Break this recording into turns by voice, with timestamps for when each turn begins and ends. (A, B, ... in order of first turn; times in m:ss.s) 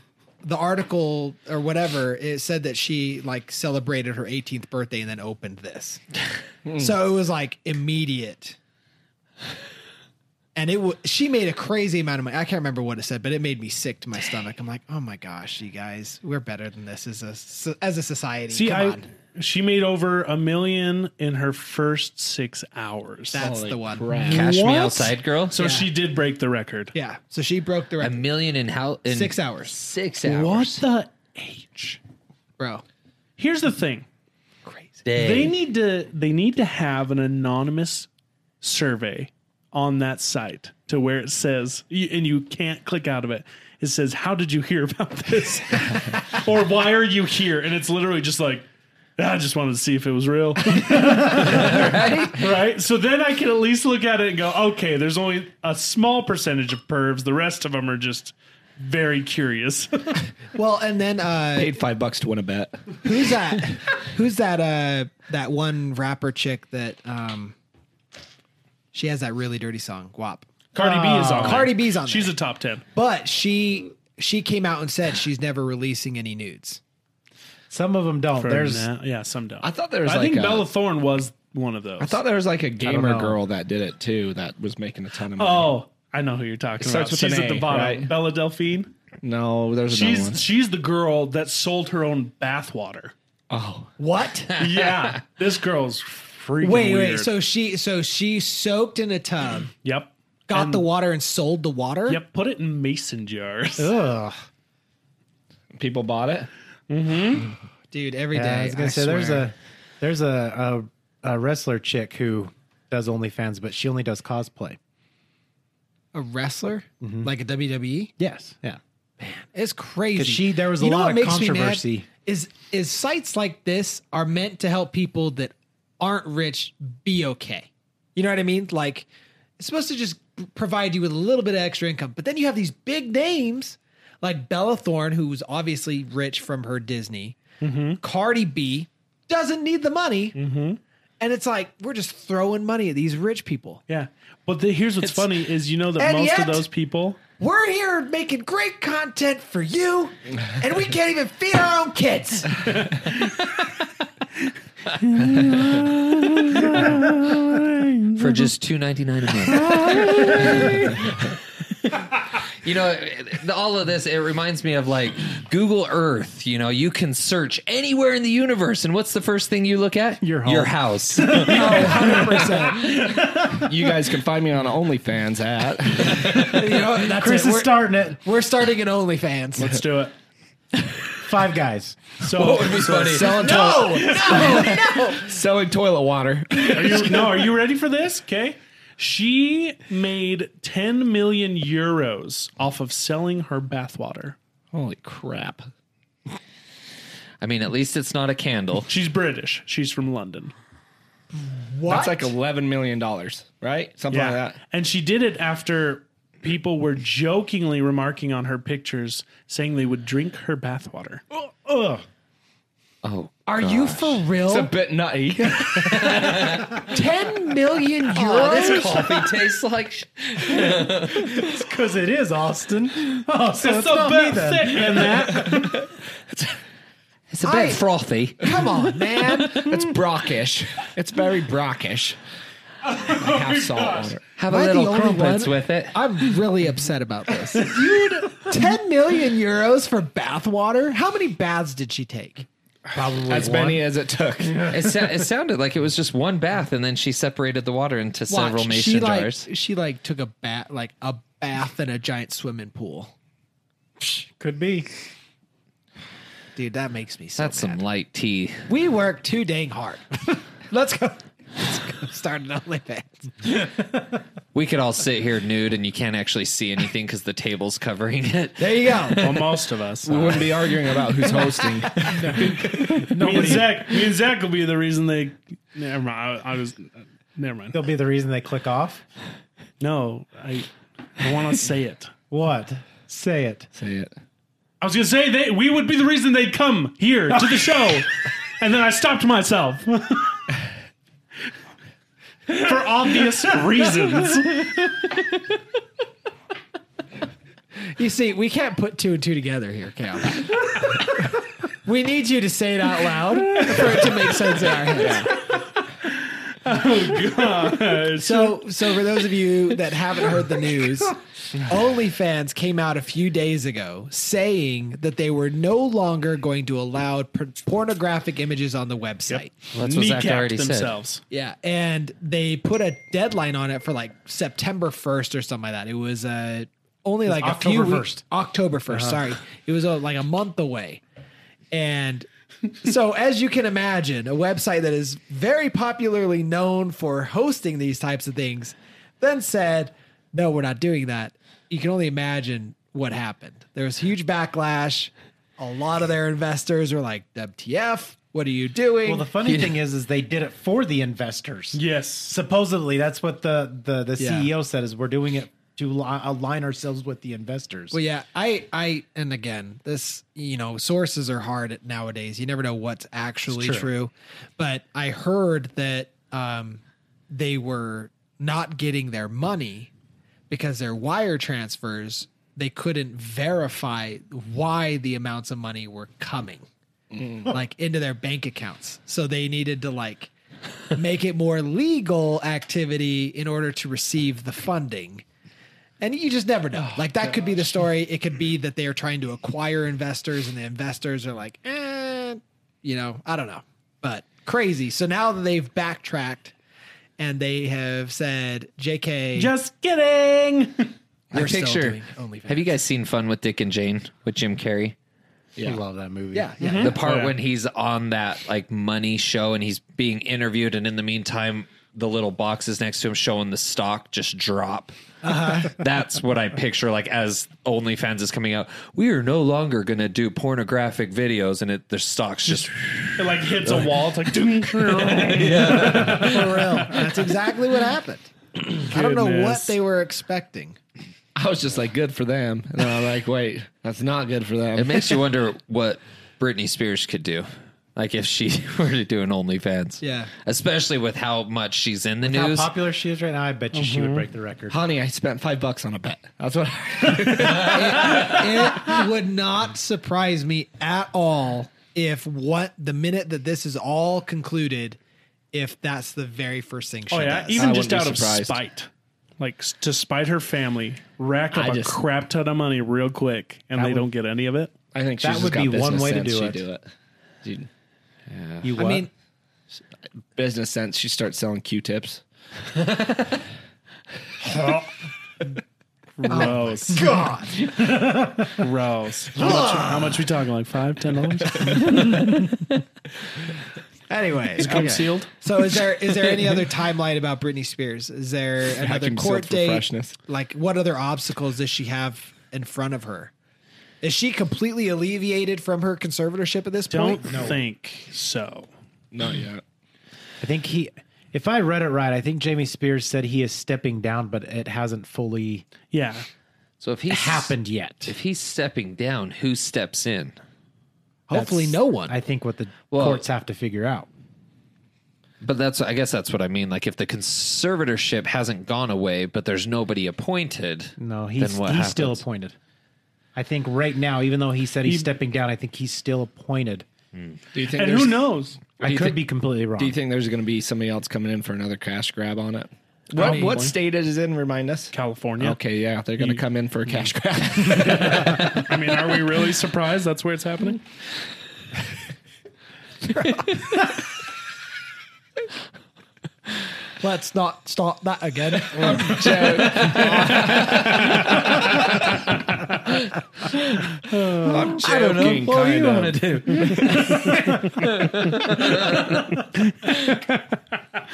0:00.4-0:06.0 A
0:06.6-0:06.9 B
0:06.7-0:08.6 A
0:10.5-0:19.1 A
0:18.5-0:23.4 C
0:23.3-0:24.2 A
0:23.4-0:24.5 B
0:24.1-0:26.9 C
0:24.3-0:25.6 D
0:25.6-0:25.9 A
0:26.9-0:28.2 A
0:28.0-0:30.8 D
0:29.1-0:29.7 A
0:30.2-0:32.0 C
0:33.4-0:34.0 C
0:34.6-0:35.0 A
0:35.0-0:35.5 D
0:35.1-0:38.1 C
0:38.6-1:00.2 C
0:51.3-0:52.4 D
1:00.5-1:01.7 A
1:01.6-1:03.0 B
1:03.0-1:07.5 A
1:08.9-1:10.5 A
1:10.7-1:12.8 C
1:10.7-1:11.7 E
1:11.2-1:12.3 A
1:12.9-1:16.8 A
1:17.7-1:18.9 E
1:18.4-1:22.2 C
1:19.6-1:20.7 B
1:22.0-1:25.7 B
1:22.8-1:23.4 E
1:25.4-1:28.9 C
1:26.8-1:28.1 B
1:29.2-1:30.4 B
1:29.9-1:33.1 C
1:33.5-1:33.9 B
1:34.0-1:34.5 A
1:34.5-1:37.3 C
1:34.7-1:35.0 D
1:36.6-1:39.7 A
1:39.8-1:40.8 C
1:40.5-1:42.2 A
1:42.1-1:43.9 C
1:43.8-1:44.4 E
1:45.7-1:46.5 B
1:46.9-1:47.5 C
1:47.9-1:49.5 A
1:48.3-1:54.8 E
1:56.1-1:58.1 A
1:57.0-1:57.3 E
1:58.2-1:58.8 E
1:59.2-2:09.1 A
2:00.2-2:02.1 E
2:09.6-2:17.4 A
2:17.6-2:18.0 C
2:18.0-2:20.4 A
2:20.3-2:20.8 C
2:21.2-2:23.8 A
2:23.9-2:27.2 C
2:26.0-2:26.6 A
2:27.4-2:32.8 A
2:32.8-2:33.6 C
2:34.9-2:38.5 C
2:38.2-2:40.9 D
2:39.5-2:40.7 C
2:42.6-2:52.2 D
2:50.2-2:53.7 E
2:51.4-2:53.0 A
2:53.5-2:56.6 B
2:56.3-2:59.8 A
2:56.8-2:58.2 E
2:59.6-3:00.1 C
3:01.2-3:02.0 E
3:02.2-3:04.7 C
3:02.3-3:03.5 D
3:03.0-3:07.4 B
3:03.4-3:05.4 A
3:06.6-3:14.4 C
3:14.7-3:15.7 B
3:17.4-3:18.9 D
3:18.9-3:20.5 C
3:21.3-3:22.3 A
3:21.8-3:24.6 B
3:24.1-3:31.2 C
3:31.3-3:32.0 E
3:33.0-3:34.2 D
3:33.5-3:34.7 A
3:34.4-3:36.3 B
3:35.7-3:37.0 D
3:36.0-3:36.6 E
3:36.8-3:39.2 A
3:37.7-3:41.5 D
3:40.5-3:45.3 E
3:43.6-3:45.8 C
3:45.4-3:46.6 B
3:47.3-3:49.6 D
3:47.4-3:47.8 A
3:48.4-3:49.8 A
3:49.6-3:52.2 B
3:53.0-3:54.3 B
3:54.4-3:56.0 D
3:54.5-4:02.4 A
4:02.9-4:03.8 E
4:03.3-4:04.7 B
4:04.5-4:05.0 E
4:04.7-4:09.5 D
4:08.3-4:13.1 A
4:14.0-4:14.9 E
4:16.5-4:17.8 A
4:17.4-4:18.7 D
4:18.7-4:23.5 A
4:24.5-4:29.4 D
4:28.6-4:29.2 A
4:29.2-4:30.5 C
4:30.0-4:33.1 B
4:31.4-4:32.4 A
4:32.0-4:33.8 E
4:32.7-4:37.8 C
4:37.7-4:39.0 E
4:39.8-4:42.1 C
4:42.3-4:43.7 E
4:43.8-4:44.1 B
4:44.8-4:50.4 C
4:52.5-4:54.7 C
4:57.9-5:01.2 A
5:01.8-5:05.4 A
5:04.9-5:05.3 B
5:06.0-5:08.6 C
5:08.1-5:19.5 A
5:19.3-5:21.2 C
5:19.7-5:20.9 D
5:21.3-5:31.0 A
5:27.3-5:28.2 E
5:28.9-5:29.2 E
5:31.7-5:32.3 A
5:32.8-5:49.3 A
5:49.0-5:58.0 E
5:51.7-5:52.3 C
5:54.2-5:54.5 A
5:57.9-6:09.9 A
6:03.5-6:03.9 E
6:10.5-6:16.7 A
6:17.1-6:17.5 B
6:17.4-6:20.3 A
6:20.9-6:25.2 A
6:26.0-6:36.5 A
6:37.2-6:39.5 A
6:39.3-6:40.9 C
6:41.3-6:42.8 A
6:41.3-6:44.9 D
6:45.6-6:45.8 B
6:45.6-6:46.5 E
6:46.3-6:46.9 A
6:46.6-6:47.3 C
6:46.8-6:54.9 D
6:55.2-6:55.8 A
6:55.5-7:04.1 D
7:03.2-7:06.5 C
7:04.8-7:06.8 D
7:05.8-7:07.0 E
7:06.2-7:08.3 A
7:08.7-7:09.8 C
7:08.9-7:10.8 A
7:11.3-7:15.2 B
7:14.8-7:22.7 D
7:20.0-7:20.3 A
7:22.2-7:24.8 E
7:23.7-7:24.3 C
7:24.7-7:28.2 B
7:27.5-7:35.0 A
7:27.8-7:28.3 D
7:35.5-7:37.8 A
7:37.1-7:44.7 C
7:37.6-7:38.6 B
7:41.5-7:42.0 B
7:43.7-7:44.1 E
7:44.9-7:46.9 B
7:45.2-7:46.6 E
7:47.4-7:47.7 B
7:48.3-7:48.7 D
7:48.6-7:49.1 E
7:48.8-7:49.1 A
7:50.3-7:52.2 B
7:52.8-7:53.3 D
7:54.4-7:54.9 E
7:56.2-7:57.1 C
7:56.3-7:57.7 A
7:57.0-7:58.6 E
7:58.6-8:02.4 C
7:59.3-8:00.2 A
8:04.1-8:13.3 A
8:04.6-8:05.3 C
8:08.8-8:10.2 B
8:14.0-8:17.5 A
8:16.9-8:18.7 C
8:17.3-8:17.6 E
8:19.1-8:19.6 B
8:20.4-8:25.6 E
8:25.9-8:26.2 C
8:26.8-8:27.5 D
8:27.1-8:28.1 E
8:28.0-8:30.4 D
8:31.3-8:32.2 A
8:31.3-8:34.1 E
8:32.9-8:33.2 D
8:35.4-8:42.2 D
8:41.0-8:42.6 E
8:43.3-8:46.8 E
8:47.5-8:48.3 B
8:47.7-8:48.6 C
8:48.8-8:50.0 E
8:48.8-8:49.2 B
8:49.8-8:58.6 B
8:53.1-8:53.8 C
8:53.2-8:53.5 A
8:54.9-8:55.6 C
8:56.2-8:56.4 C
8:57.7-9:00.8 C
9:07.0-9:11.2 A
9:08.7-9:11.2 B
9:09.5-9:11.8 D
9:12.9-9:13.8 D
9:14.1-9:14.5 C
9:14.4-9:17.1 B
9:14.4-9:19.2 D